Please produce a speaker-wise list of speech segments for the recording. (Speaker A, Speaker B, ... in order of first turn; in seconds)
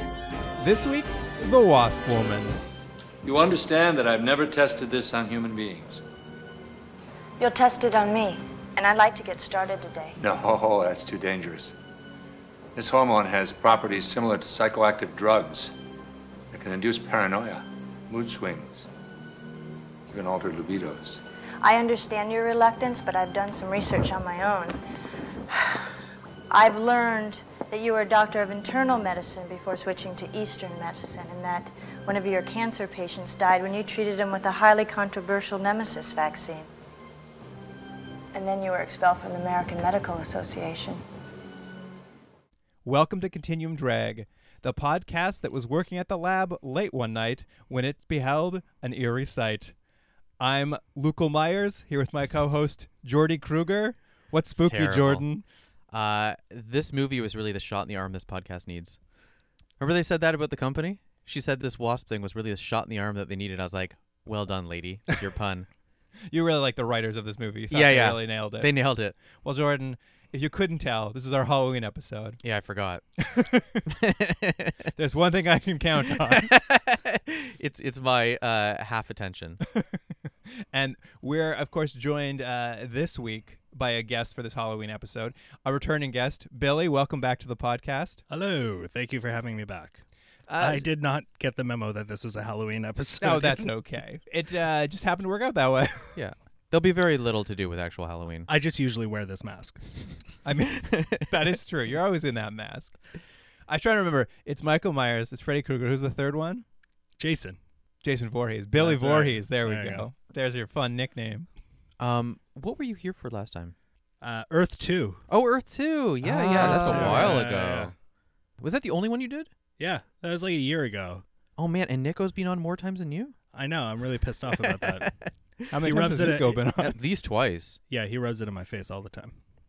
Speaker A: 0.6-2.6, 42.8-49.7, 50.4-55.4, 66.3-68.7, 69.3-72.4, 73.2-74.0, 75.0-76.5, 79.7-88.2, 90.5-90.8, 93.2-96.2, 100.4-103.0, 103.7-106.6, 108.0-111.5, 116.2-117.5, 125.7-127.0
Speaker B: 3.2-6.0, 10.2-11.7, 12.8-15.7, 16.5-18.9, 20.1-21.2
Speaker C: 7.4-10.2, 21.6-24.8, 25.5-25.8, 26.5-36.7, 38.3-41.0
Speaker D: 54.6-55.2, 55.9-59.0, 59.8-65.7, 67.7-69.1, 72.4-73.0, 73.9-74.9, 76.2-79.6, 96.1-98.5, 100.8-101.3, 112.0-113.7, 115.3-117.9, 118.6-119.5, 121.6-123.3, 124.5-125.3, 126.8-127.8
Speaker E: 88.3-90.0, 90.6-93.7, 98.5-99.9, 107.2-107.6, 108.8-110.1, 114.2-115.2, 116.2-117.9, 119.8-121.2, 123.5-125.1, 125.7-126.6, 127.9-129.3